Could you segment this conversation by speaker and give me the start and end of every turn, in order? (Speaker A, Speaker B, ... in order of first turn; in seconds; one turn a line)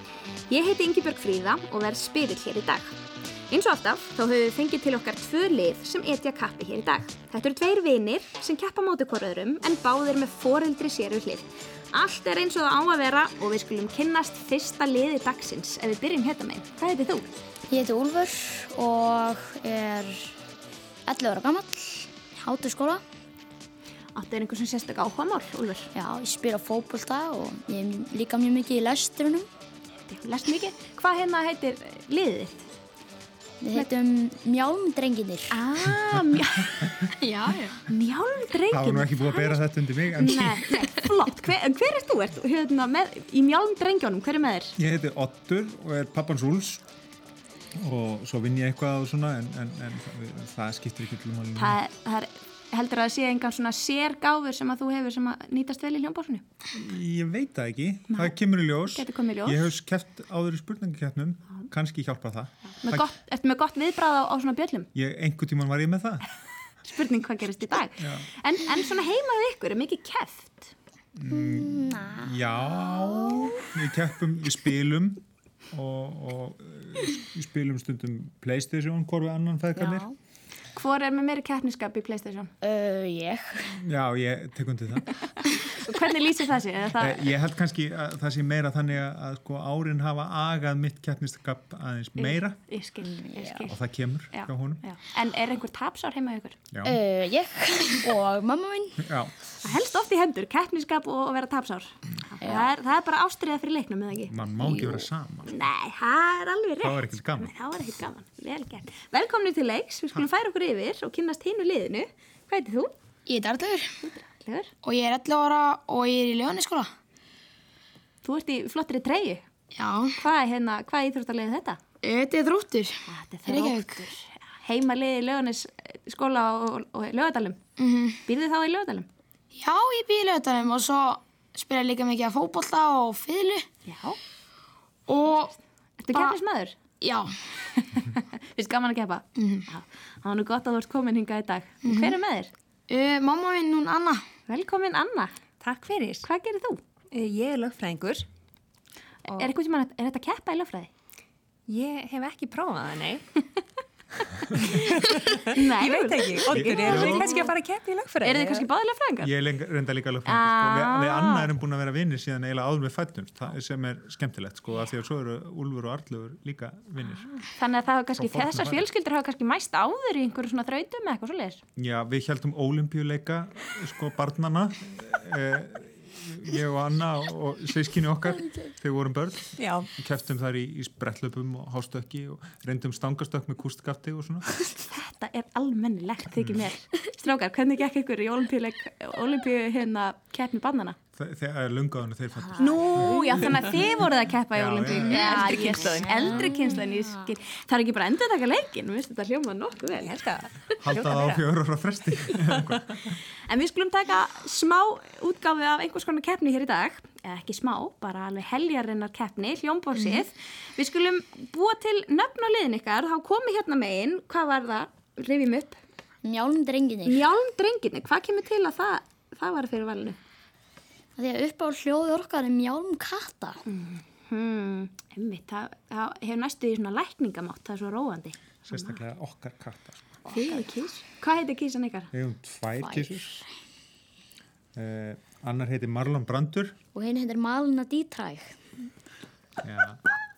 Speaker A: 0.5-3.0
Speaker A: 3.5-17.3
Speaker B: 17.7-20.3
Speaker B: 21.1-23.0
Speaker A: 24.1-25.9
Speaker B: 25.9-29.5
Speaker A: 30.1-32.7
Speaker B: 33.6-35.6
Speaker A: 35.5-36.9
Speaker C: 37.2-37.8
Speaker A: 37.9-44.7
Speaker D: 38.7-40.7
Speaker D: 44.8-46.8
Speaker D: 47.8-51.8
Speaker A: 51.5-56.4
Speaker D: 56.7-63.0
Speaker A: 58.1-59.7
Speaker A: 62.8-64.9
Speaker D: 64.9-66.2
Speaker A: 66.8-70.7
Speaker D: 68.0-68.3
Speaker D: 71.2-80.1
Speaker B: 71.3-73.7
Speaker B: 79.8-80.2
Speaker A: 80.7-82.5
Speaker B: 82.6-83.8
Speaker D: 83.8-85.1
Speaker A: 85.7-87.3
Speaker D: 87.0-92.6
Speaker A: 92.2-93.8
Speaker B: 93.0-93.7
Speaker D: 93.7-94.8
Speaker A: 94.3-96.6
Speaker D: 96.7-97.0
Speaker B: 96.8-99.1
Speaker D: 99.0-99.3
Speaker A: 99.6-104.8
Speaker B: 102.4-102.7
Speaker D: 104.3-105.5
Speaker B: 104.7-105.0
Speaker A: 105.5-112.9
Speaker D: 106.8-107.5
Speaker C: 113.2-113.9
Speaker A: 114.0-114.7
Speaker C: 114.8-116.9
Speaker A: 118.2-119.4
Speaker C: 119.7-120.2
Speaker A: 120.2-121.8
Speaker C: 122.0-122.9
Speaker A: 123.1-127.6
Speaker C: 123.5-124.0
Speaker C: 127.8-128.2
Speaker A: 128.2-129.1
Speaker C: 129.5-133.6
Speaker A: 133.8-134.2
Speaker C: 135.1-135.5
Speaker A: 135.3-136.8
Speaker C: 136.1-136.4
Speaker C: 137.0-137.3
Speaker A: 137.8-142.5
Speaker C: 139.3-139.6
Speaker C: 141.8-142.2
Speaker C: 142.9-144.2
Speaker A: 144.5-145.3
Speaker E: 145.6-146.2
Speaker A: 146.2-146.8
Speaker E: 147.1-148.2
Speaker A: 149.2-150.9
Speaker E: 151.7-153.2
Speaker E: 154.6-158.7
Speaker A: 155.0-157.5
Speaker D: 156.5-157.4
Speaker A: 158.2-159.3
Speaker D: 159.2-167.3
Speaker A: 160.2-161.5
Speaker A: 167.6-171.6
Speaker D: 168.2-168.9
Speaker D: 171.8-184.4
Speaker E: 179.6-179.9
Speaker A: 184.9-191.0
Speaker D: 191.2-193.6
Speaker B: 192.5-193.8
Speaker A: 192.6-200.1
Speaker D: 194.5-195.3
Speaker E: 195.1-196.2
Speaker B: 195.3-197.0
Speaker E: 200.0-201.4
Speaker D: 200.8-203.1
Speaker A: 203.5-215.8
Speaker B: 216.2-217.2
Speaker A: 217.0-220.2
Speaker B: 221.2-223.6
Speaker A: 223.7-229.0
Speaker D: 228.7-230.1
Speaker A: 230.3-232.1
Speaker B: 230.3-230.6
Speaker D: 232.1-233.4
Speaker B: 232.8-233.5
Speaker D: 234.8-236.8
Speaker B: 236.9-238.5
Speaker D: 239.6-240.0